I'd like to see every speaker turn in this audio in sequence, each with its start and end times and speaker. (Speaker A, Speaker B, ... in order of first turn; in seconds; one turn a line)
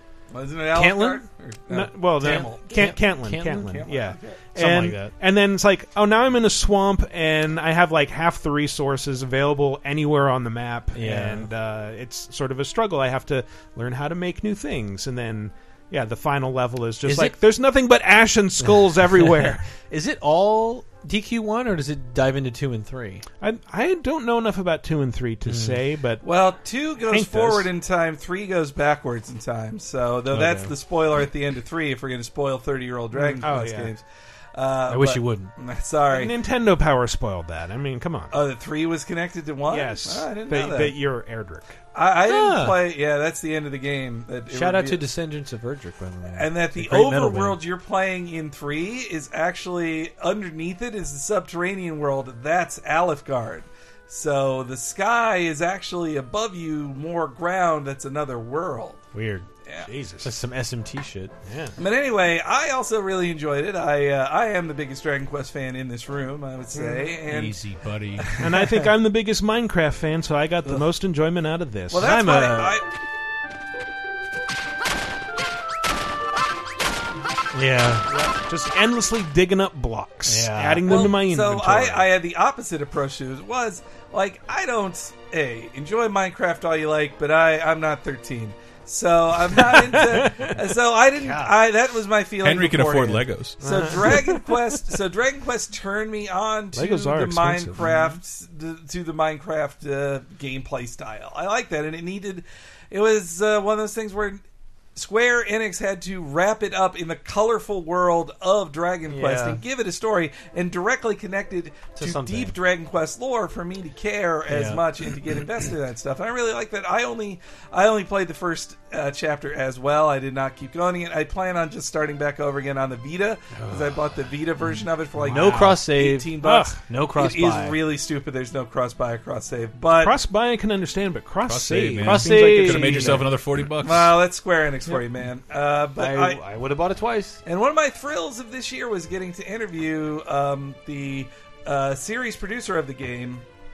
Speaker A: 0.3-4.5
Speaker B: 0.7-1.2
Speaker C: 1.7-19.6
Speaker B: 2.2-3.9
Speaker B: 4.5-5.2
Speaker B: 10.9-11.5
Speaker B: 17.1-17.4
Speaker B: 18.6-23.2
Speaker C: 23.4-26.2
Speaker B: 25.4-25.8
Speaker A: 26.2-34.0
Speaker C: 27.1-27.7
Speaker B: 30.3-30.7
Speaker C: 33.1-33.9
Speaker A: 34.5-36.3
Speaker B: 34.9-35.5
Speaker C: 36.1-38.3
Speaker A: 38.3-41.0
Speaker C: 39.7-41.8
Speaker A: 41.9-45.0
Speaker B: 42.2-42.8
Speaker B: 44.5-47.6
Speaker A: 46.4-59.1
Speaker B: 59.1-59.5
Speaker A: 59.6-59.9
Speaker C: 59.9-60.3
Speaker B: 60.2-61.4
Speaker C: 61.4-61.7
Speaker A: 61.8-67.6
Speaker C: 66.7-67.1
Speaker D: 67.3-68.3
Speaker A: 68.2-68.8
Speaker C: 68.4-72.5
Speaker A: 71.9-72.8
Speaker B: 72.0-72.8
Speaker B: 77.5-78.1
Speaker C: 78.1-82.1
Speaker B: 80.3-81.1
Speaker A: 80.8-104.4
Speaker C: 90.1-90.5
Speaker B: 91.2-91.6
Speaker D: 92.4-93.6
Speaker C: 93.6-94.6
Speaker C: 96.7-98.1
Speaker A: 104.9-130.2
Speaker B: 109.1-109.6
Speaker B: 112.0-112.5
Speaker B: 114.5-114.8
Speaker B: 125.2-127.8
Speaker C: 125.3-125.8
Speaker C: 126.4-126.8
Speaker C: 129.9-133.3
Speaker D: 131.4-134.2
Speaker B: 132.0-133.3
Speaker A: 133.8-136.4
Speaker B: 135.9-137.4
Speaker A: 137.4-143.4